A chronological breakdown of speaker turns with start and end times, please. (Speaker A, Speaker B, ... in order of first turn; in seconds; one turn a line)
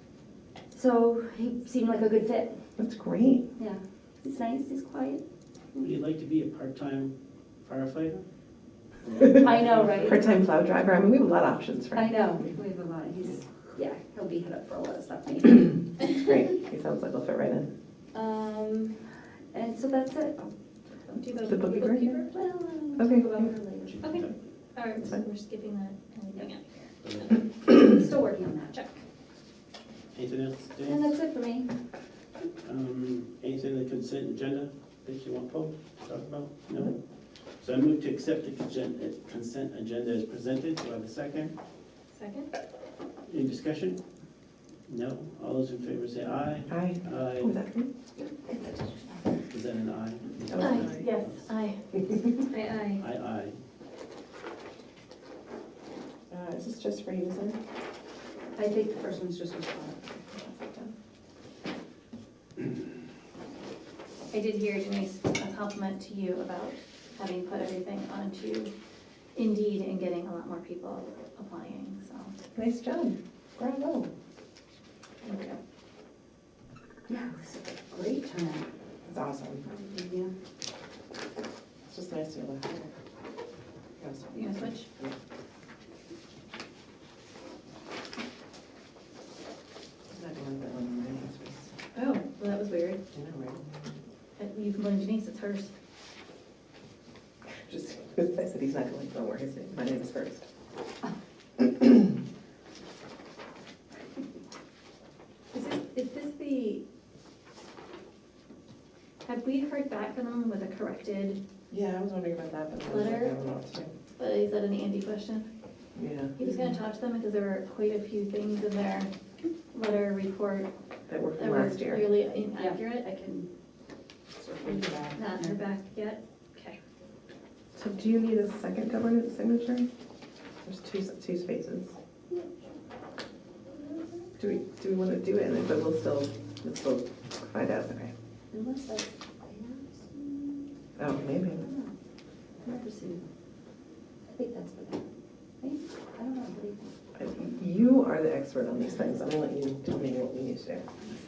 Speaker A: 0.7-2.6
Speaker B: 2.8-3.5
Speaker A: 3.6-5.2
Speaker C: 5.7-8.2
Speaker A: 9.2-10.2
Speaker C: 9.2-10.1
Speaker B: 9.9-12.1
Speaker A: 11.9-15.8
Speaker B: 16.0-17.7
Speaker A: 18.1-20.5
Speaker A: 21.1-24.1
Speaker D: 21.1-22.3
Speaker B: 21.4-22.2
Speaker B: 23.0-23.5
Speaker C: 23.9-24.3
Speaker D: 24.0-27.3
Speaker C: 27.0-27.4
Speaker A: 27.6-28.8
Speaker D: 28.7-29.0
Speaker C: 30.1-31.1
Speaker A: 30.8-31.7
Speaker C: 32.6-37.0
Speaker C: 37.6-41.5
Speaker D: 42.1-42.5
Speaker C: 43.3-44.0
Speaker C: 44.9-47.5
Speaker B: 46.7-47.9
Speaker A: 48.3-49.4
Speaker C: 49.5-51.5
Speaker B: 50.5-51.0
Speaker D: 50.6-51.8
Speaker D: 52.4-53.0
Speaker C: 53.0-53.5
Speaker B: 56.3-57.6
Speaker A: 58.5-60.5
Speaker B: 60.5-60.9
Speaker D: 64.3-68.7
Speaker D: 69.3-72.3
Speaker B: 72.5-74.1
Speaker D: 75.2-75.6
Speaker A: 77.1-78.7
Speaker B: 79.1-79.7
Speaker A: 79.6-80.3
Speaker B: 81.9-82.9
Speaker B: 84.0-85.1
Speaker D: 84.3-84.9
Speaker B: 90.1-91.7
Speaker D: 91.9-93.0
Speaker B: 93.1-93.6
Speaker D: 94.4-95.7
Speaker B: 97.6-100.5
Speaker B: 101.6-101.8
Speaker D: 105.5-106.8
Speaker D: 109.2-111.4
Speaker B: 111.7-113.9
Speaker D: 112.9-113.3
Speaker D: 114.2-115.4
Speaker B: 116.0-116.3
Speaker D: 116.3-119.1
Speaker A: 116.4-116.8
Speaker D: 119.7-120.7
Speaker B: 121.1-122.0
Speaker D: 121.4-123.1
Speaker A: 122.5-123.5
Speaker A: 124.4-125.6
Speaker D: 125.1-126.8
Speaker B: 127.7-129.9
Speaker B: 130.6-131.9
Speaker A: 132.3-132.7
Speaker A: 133.7-134.4
Speaker B: 134.4-138.1
Speaker A: 138.5-140.7
Speaker B: 141.0-141.7
Speaker A: 141.6-141.9
Speaker A: 142.6-143.3
Speaker A: 144.2-145.1
Speaker A: 145.6-147.5
Speaker B: 147.2-150.9